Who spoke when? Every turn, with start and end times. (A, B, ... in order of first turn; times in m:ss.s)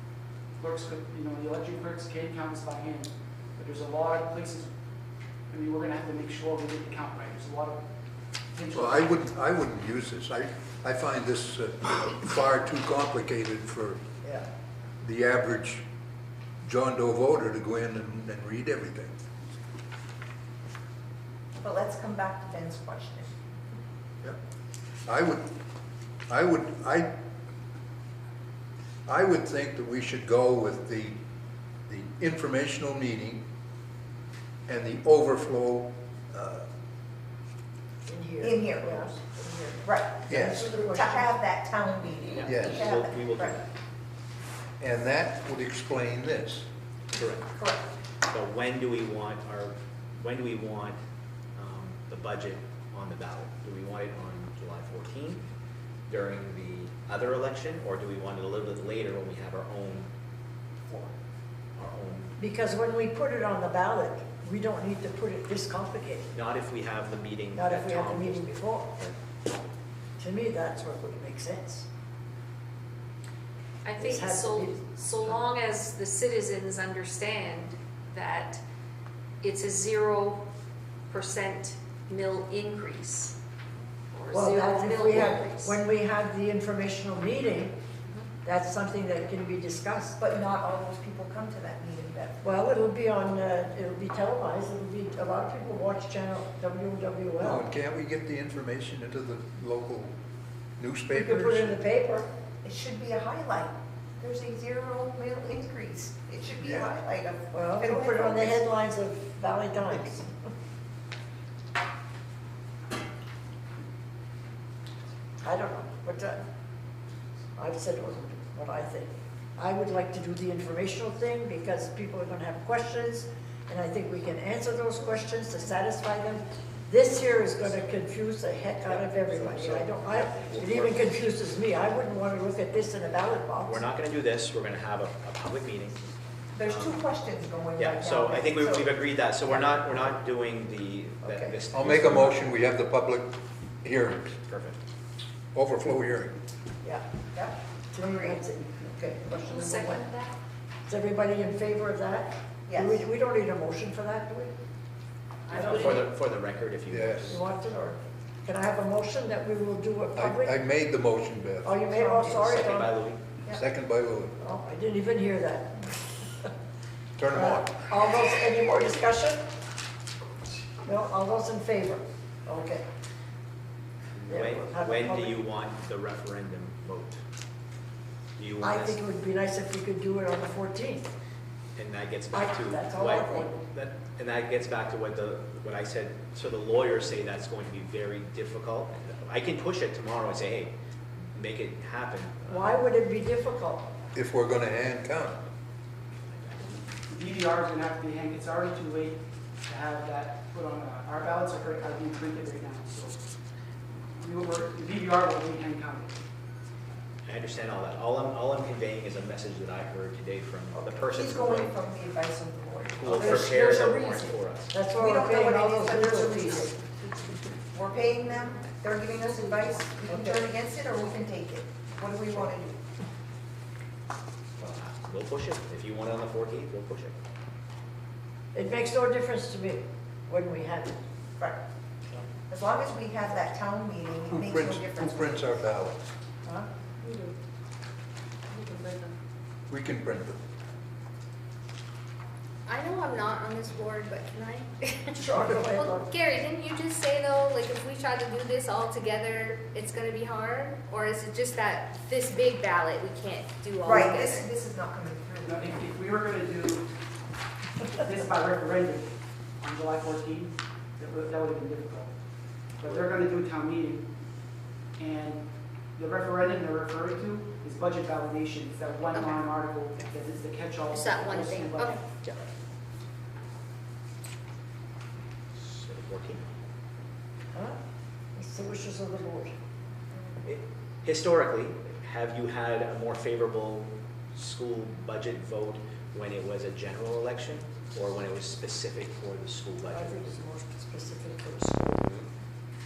0:00.6-0:04.7 A
0:05.5-0:07.8 A
0:08.5-0:09.1 A
0:08.7-0:14.2 B
0:15.0-0:15.8 B
0:16.6-0:19.1 B
0:21.6-0:23.3 C
0:25.0-0:25.4 B
0:26.3-0:27.1 B
0:29.0-0:31.2 B
0:31.9-0:33.4 B
0:34.7-0:36.7 B
0:38.1-0:41.4 D
0:38.4-0:43.6 C
0:40.3-0:40.6 B
0:42.3-0:43.7 E
0:42.4-0:42.9 B
0:44.8-0:46.7 B
0:47.1-0:47.5 E
0:47.6-0:47.9 C
0:48.3-0:51.0 E
0:51.6-0:55.4 E
0:56.1-1:00.1 E
1:00.9-1:01.1 E
1:01.8-1:02.3 E
1:02.4-1:06.3 D
1:06.3-1:09.2 E
1:07.5-1:08.9 D
1:10.2-1:11.8 D
1:13.8-1:18.6 F
1:14.0-1:15.4 D
1:19.4-1:20.4 F
1:21.1-1:23.3 F
1:24.1-1:25.8 F
1:24.3-1:27.7 D
1:28.4-1:30.2 D
1:30.2-1:32.5 C
1:32.4-1:37.6 D
1:37.4-1:40.1 B
1:40.8-1:41.8 B
1:41.1-1:42.3 D
1:42.6-1:48.7 C
1:47.5-1:50.3 D
1:55.4-1:56.4 D
1:57.6-2:13.9 D
2:08.8-2:11.3 E
2:13.6-2:17.0 E
2:16.5-2:19.0 C
2:17.8-2:22.5 E
2:21.2-2:22.4 D
2:21.7-2:24.4 B
2:24.5-2:24.8 E
2:25.5-2:26.4 B
2:27.3-2:28.4 C
2:27.9-2:30.1 D
2:29.3-2:30.4 F
2:30.9-2:34.5 D
2:32.7-2:33.0 C
2:35.5-2:37.4 E
2:35.5-2:35.9 F
2:35.5-2:36.1 D
2:36.9-2:37.4 B
2:37.3-2:40.6 D
2:40.2-2:41.8 B
2:41.6-2:43.0 D
2:41.8-2:42.6 C
2:42.4-2:43.2 E
2:43.5-2:44.5 B
2:44.4-2:46.5 D
2:47.2-2:47.8 B
2:47.3-2:49.4 D
2:50.8-2:52.8 D
2:54.2-2:57.2 E
2:54.3-2:55.4 D
2:58.4-2:59.0 E
2:58.6-3:01.1 D
3:01.8-3:10.7 E
3:02.3-3:03.6 D
3:11.3-3:12.8 E
3:12.5-3:13.8 D
3:14.1-3:15.4 B
3:16.3-3:16.8 E
3:17.1-3:23.2 A
3:24.2-3:26.2 A
3:27.2-3:31.7 E
3:30.7-3:33.6 C
3:33.0-3:34.7 E
3:33.0-3:36.7 D
3:34.9-3:36.8 C
3:37.7-3:42.8 C
3:40.1-3:40.5 D
3:44.6-3:47.2 E
3:48.5-3:51.0 D
3:52.5-3:55.6 C
3:54.3-3:56.1 B
3:59.7-4:00.4 B
4:02.7-4:14.5 G
4:05.2-4:06.1 D
4:13.8-4:15.7 C
4:15.4-4:16.9 A
4:17.9-4:22.1 A
4:22.8-4:24.1 A
4:25.0-4:32.0 A
4:30.9-4:32.0 G
4:35.5-4:36.4 E
4:38.4-4:39.5 D
4:40.4-4:50.2 E
4:49.9-4:52.1 D
4:52.0-4:52.3 E